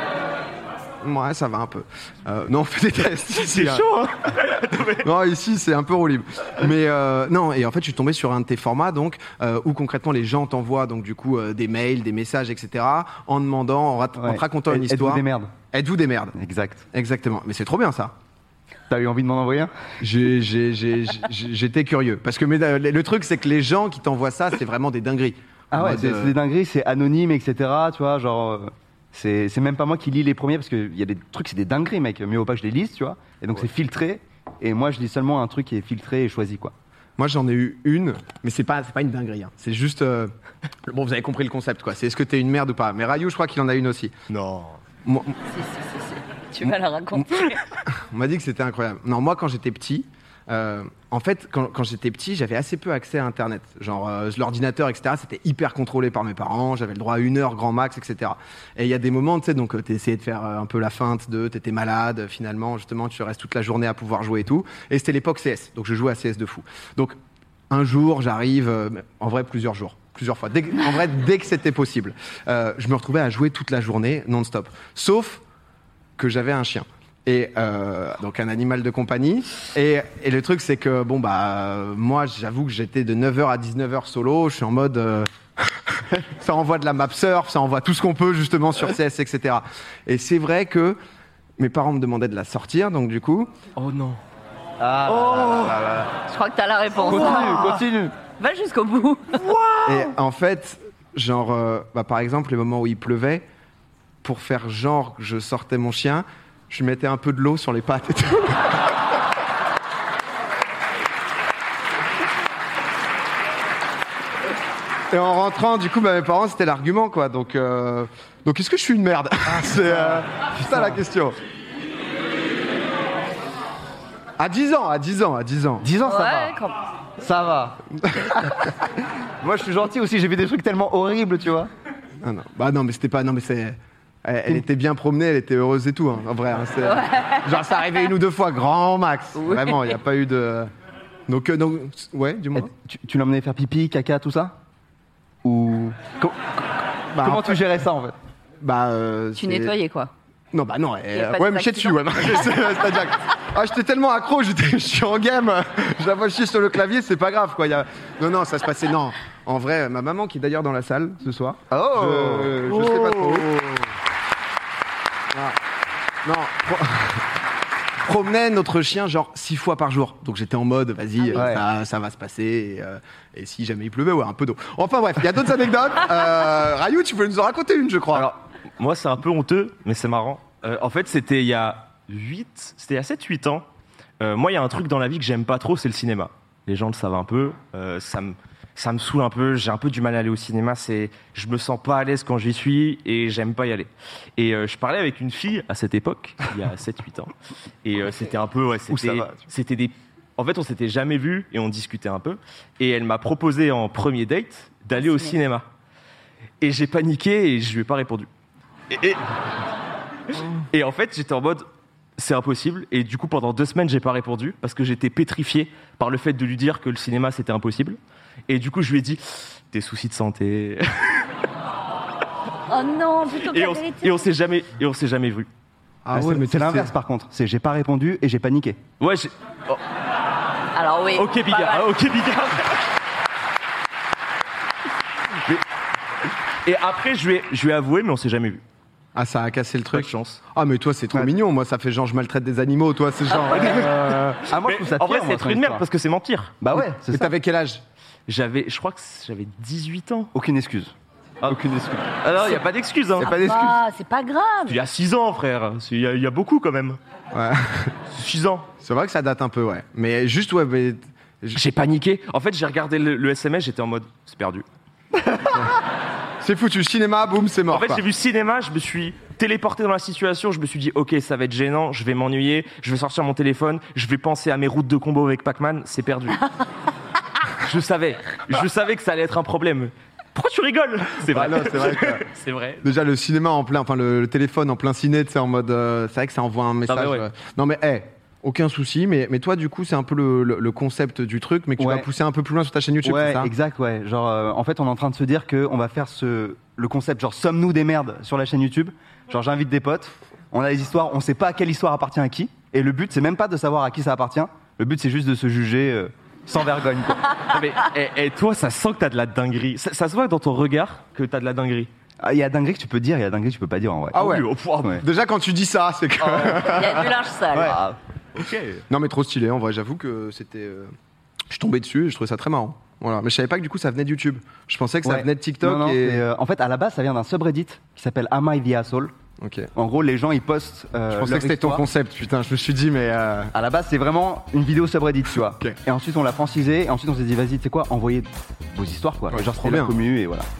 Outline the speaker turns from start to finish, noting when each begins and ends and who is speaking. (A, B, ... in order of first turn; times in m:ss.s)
0:01.0-0:03.9 A
0:03.4-0:05.0 B
0:05.0-0:16.4 A
0:14.2-0:15.5 C
0:16.3-0:16.8 C
0:16.9-0:18.1 A
0:18.9-0:19.7 C
0:20.0-0:26.3 A
0:25.7-0:36.7 C
0:37.2-0:40.3 A
0:40.8-0:44.1 A
0:44.3-0:44.8 B
0:45.0-0:45.4 A
0:45.5-0:47.6 D
0:47.9-1:07.2 A
1:07.7-1:15.4 A
1:16.2-1:31.0 A
1:31.6-1:33.5 A
1:33.8-1:34.2 B
1:34.8-1:36.1 C
1:35.1-1:35.9 B
1:36.3-1:37.8 D
1:37.0-1:38.2 C
1:38.4-1:39.4 D
1:39.8-1:43.4 A
1:44.2-1:48.9 A
1:55.1-2:01.4 A
1:59.6-2:01.0 C
2:04.4-2:05.9 A
2:05.8-2:06.6 C
2:06.0-2:06.8 D
2:07.2-2:08.9 C
2:08.0-2:08.3 A
2:09.4-2:11.7 C
2:12.2-2:20.7 A
2:16.9-2:17.4 D
2:19.4-2:19.9 D
2:21.3-2:22.7 A
2:22.5-2:24.5 C
2:25.4-2:26.3 C
2:27.1-2:27.6 A
2:27.2-2:28.1 C
2:28.6-2:29.7 A
2:29.4-2:30.1 D
2:30.5-2:43.7 A
2:31.1-2:32.4 D
2:41.7-2:43.4 C
2:46.2-2:47.2 A
2:48.0-2:58.3 A
2:51.3-2:51.6 C
2:58.1-3:03.6 B
3:04.2-3:17.3 B
3:17.8-3:25.7 B
3:18.9-3:19.4 C
3:25.0-3:25.3 D
3:26.6-3:28.3 B
3:28.9-3:29.2 B
3:30.3-3:31.6 B
3:32.2-3:41.3 B
3:42.7-3:44.2 D
3:43.3-3:45.5 B
3:46.0-3:46.9 A
3:46.1-3:48.8 C
3:49.0-3:49.8 B
3:50.7-3:51.9 D
3:51.1-3:52.8 B
3:56.6-3:58.6 B
3:59.1-4:04.4 A
3:59.9-4:00.4 B
4:03.6-4:03.9 B
4:04.4-4:05.8 C
4:04.5-4:06.5 B
4:06.6-4:07.3 C
4:06.7-4:07.8 A
4:08.3-4:10.3 B
4:10.3-4:12.1 C
4:12.2-4:13.3 B
4:13.2-4:13.8 C
4:13.2-4:14.8 D
4:14.6-4:17.0 B
4:17.3-4:17.9 A
4:18.1-4:18.7 B
4:18.8-4:21.6 A
4:21.5-4:24.6 B
4:26.4-4:28.0 A
4:27.7-4:36.4 B
4:37.6-4:42.9 B
4:41.3-4:42.2 A
4:42.8-4:53.5 A
4:46.9-4:47.2 B
4:51.8-4:52.1 C
4:53.0-5:07.3 C
5:07.5-5:11.9 B
5:12.2-5:14.2 C
5:14.1-5:17.2 A
5:14.1-5:15.0 B
5:16.4-5:17.8 D
5:17.5-5:18.0 C
5:18.3-5:18.8 B
5:18.9-5:20.9 A
5:21.5-5:26.2 A
5:25.0-5:29.1 C
5:29.4-5:29.7 A
5:29.7-5:31.8 C
5:31.1-5:33.5 A
5:33.5-5:40.5 C
5:39.3-5:40.0 A